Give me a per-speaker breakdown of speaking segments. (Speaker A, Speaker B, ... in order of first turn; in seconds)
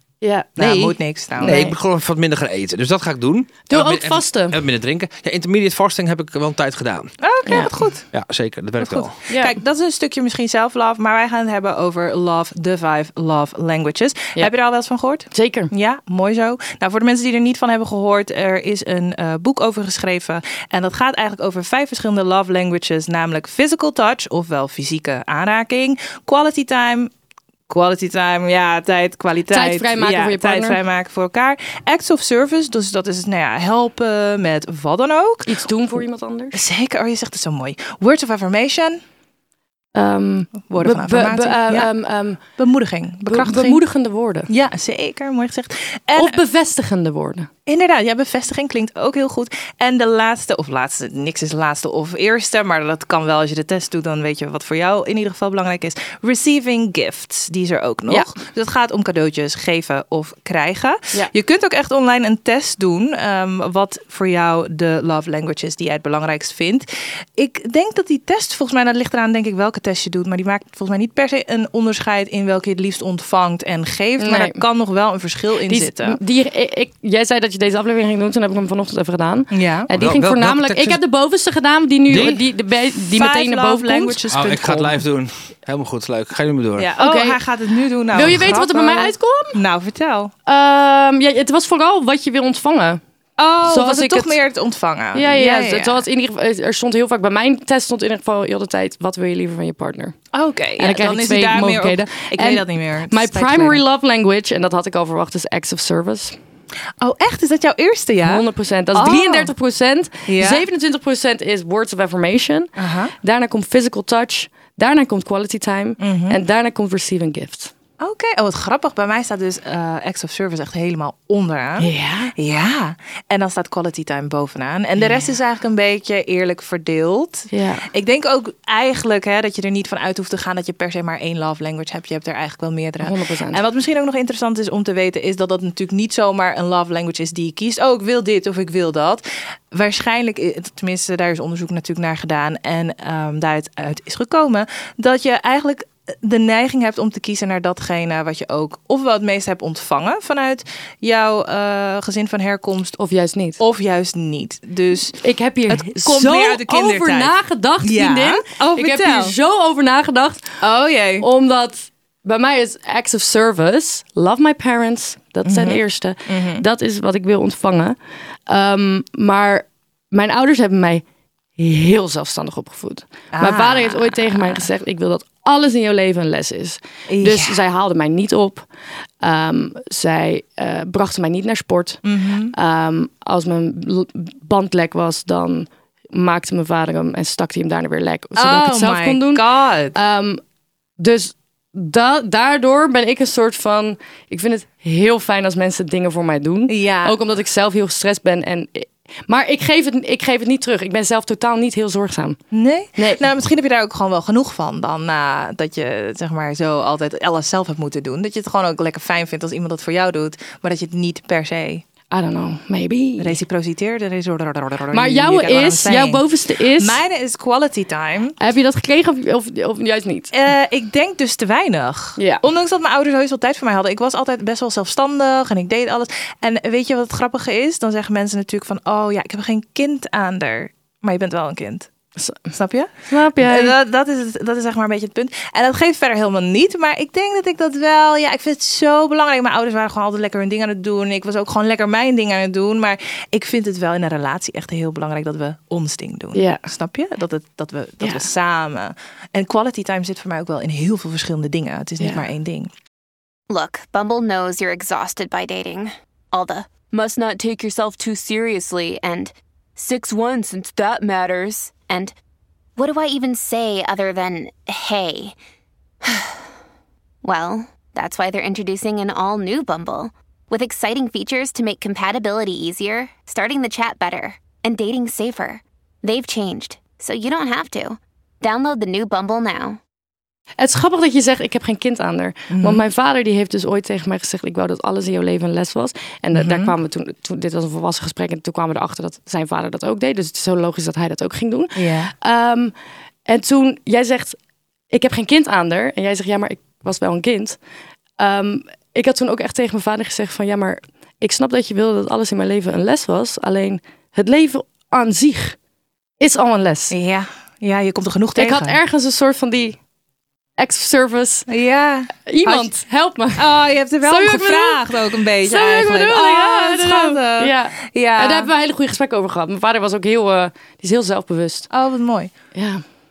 Speaker A: 0.2-0.6, 1.4-1.8, 3.7-4.6, 7.5-7.7, 9.3-9.6, 15.3-15.7, 29.5-30.8, 35.5-36.6, 39.9-42.4, 43.2-44.5, 46.1-47.5, 74.2-74.6, 75.7-84.2, 87.0-87.4, 88.1-89.5, 90.5-93.0, 93.6-94.4, 95.1-100.2, 100.8-106.3, 108.2-112.7, 113.2-117.7, 121.8-122.3, 125.0-125.2, 127.5-127.9, 133.0-133.6, 153.0-153.6, 155.2-160.6, 161.2-167.9, 168.5-171.0, 171.6-178.7, 179.2-182.0, 182.5-190.4, 191.0-202.4, 203.0-203.2, 212.1-213.4, 214.9-217.0, 218.4-220.3, 222.2-222.4, 233.1-233.8, 246.3-246.6, 252.0-252.2, 280.6-292.7, 293.3-294.4, 294.9-297.6, 298.2-305.6, 306.2-306.9, 308.4-309.8, 310.6-311.5, 312.3-313.5, 314.0-321.6, 322.5-322.8
Speaker B: 0.6-1.6, 7.2-8.1, 8.8-27.1, 27.7-35.5, 36.5-39.0, 40.7-41.9, 42.5-43.8, 44.5-46.4, 47.6-66.8, 67.4-76.2, 79.5-79.9, 83.0-85.0, 86.8-90.3, 93.4-96.0, 100.3-103.8, 107.0-109.5, 110.3-110.7, 112.8-113.1, 116.0-116.4, 118.0-153.0, 153.6-159.3, 160.6-161.2, 165.4-166.6, 173.3-174.6, 177.1-177.6, 182.0-182.5, 188.3-189.9, 196.7-197.2, 202.5-211.8, 213.2-218.3, 220.3-231.9, 232.5-252.7, 282.5-282.8, 286.3-286.7, 291.8-292.1, 306.9-308.8, 311.5-312.7, 313.4-318.5, 321.7-322.3
Speaker C: 0.6-7.1, 8.1-9.1, 79.9-81.0, 82.1-82.4, 84.3-86.9
Speaker D: 253.5-262.1, 262.8-265.4, 266.0-266.4, 267.2-279.8